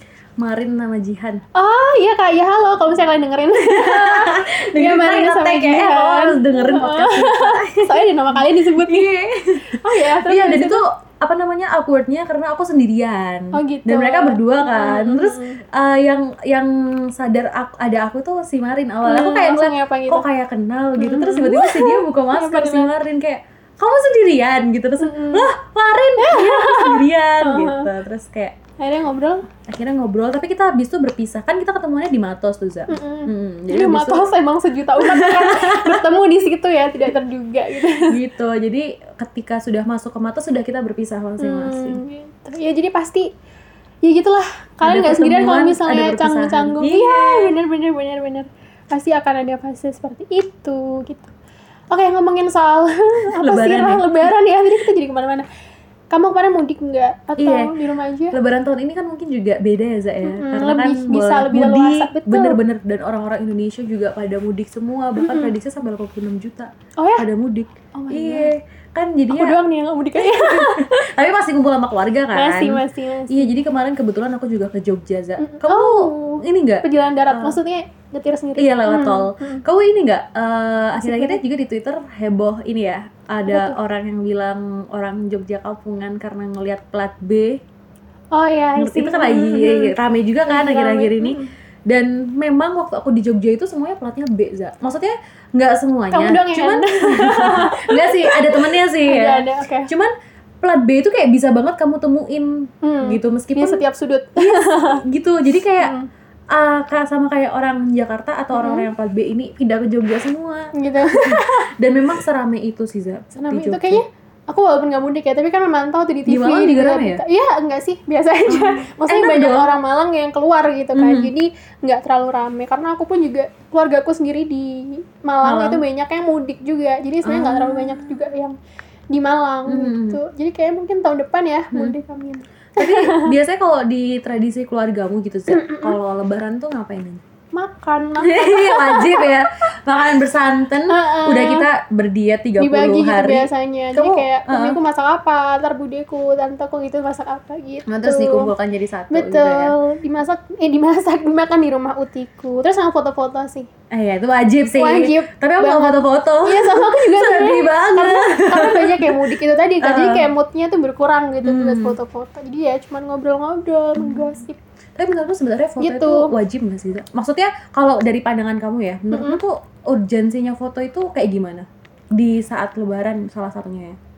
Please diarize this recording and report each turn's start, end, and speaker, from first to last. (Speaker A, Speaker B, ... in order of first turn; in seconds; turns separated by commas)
Speaker A: 0.4-1.4, Speaker B: 1.6-9.1, Speaker A: 3.7-28.6, Speaker B: 9.7-10.8, Speaker B: 13.5-15.6, Speaker B: 19.1-20.2, Speaker B: 21.0-22.9, Speaker B: 25.0-25.5, Speaker B: 26.2-27.9, Speaker B: 28.8-29.4, Speaker A: 29.7-34.2, Speaker B: 32.9-38.1, Speaker A: 35.0-35.9, Speaker A: 38.0-42.0, Speaker B: 41.4-43.3, Speaker B: 44.0-51.3, Speaker A: 44.8-47.5, Speaker B: 51.9-55.5, Speaker A: 53.3-54.3, Speaker B: 56.1-58.4, Speaker A: 57.4-57.7, Speaker A: 58.3-69.5, Speaker B: 60.2-62.6, Speaker B: 65.2-65.5, Speaker B: 67.0-67.2, Speaker B: 68.0-68.5, Speaker B: 69.3-71.1, Speaker A: 70.2-77.6, Speaker B: 72.3-73.5, Speaker B: 75.4-79.6, Speaker A: 78.6-87.6, Speaker B: 81.0-81.4, Speaker B: 83.5-83.8, Speaker B: 88.3-89.9, Speaker A: 88.8-91.4, Speaker B: 90.5-91.5, Speaker A: 91.9-100.1, Speaker B: 96.1-99.9, Speaker A: 100.6-102.5, Speaker B: 102.8-105.0, Speaker A: 103.0-103.8, Speaker A: 104.4-105.9, Speaker B: 105.8-106.1, Speaker A: 106.5-114.0, Speaker B: 108.5-108.9, Speaker B: 110.8-111.7, Speaker B: 113.3-128.6, Speaker A: 116.3-117.2, Speaker A: 118.5-119.7, Speaker A: 120.9-121.3, Speaker A: 125.4-125.8, Speaker A: 127.2-128.1, Speaker B: 129.1-133.3, Speaker A: 129.7-130.2, Speaker A: 132.8-137.2, Speaker B: 135.5-135.9, Speaker B: 137.5-139.5, Speaker A: 138.2-144.8, Speaker B: 140.9-141.7, Speaker B: 142.6-148.5, Speaker A: 147.9-149.7, Speaker B: 149.1-153.7, Speaker A: 153.9-159.2, Speaker B: 154.8-164.6, Speaker A: 159.8-160.2, Speaker A: 161.4-161.9, Speaker A: 164.0-164.2, Speaker A: 165.0-173.9, Speaker B: 165.8-166.3, Speaker B: 169.1-169.4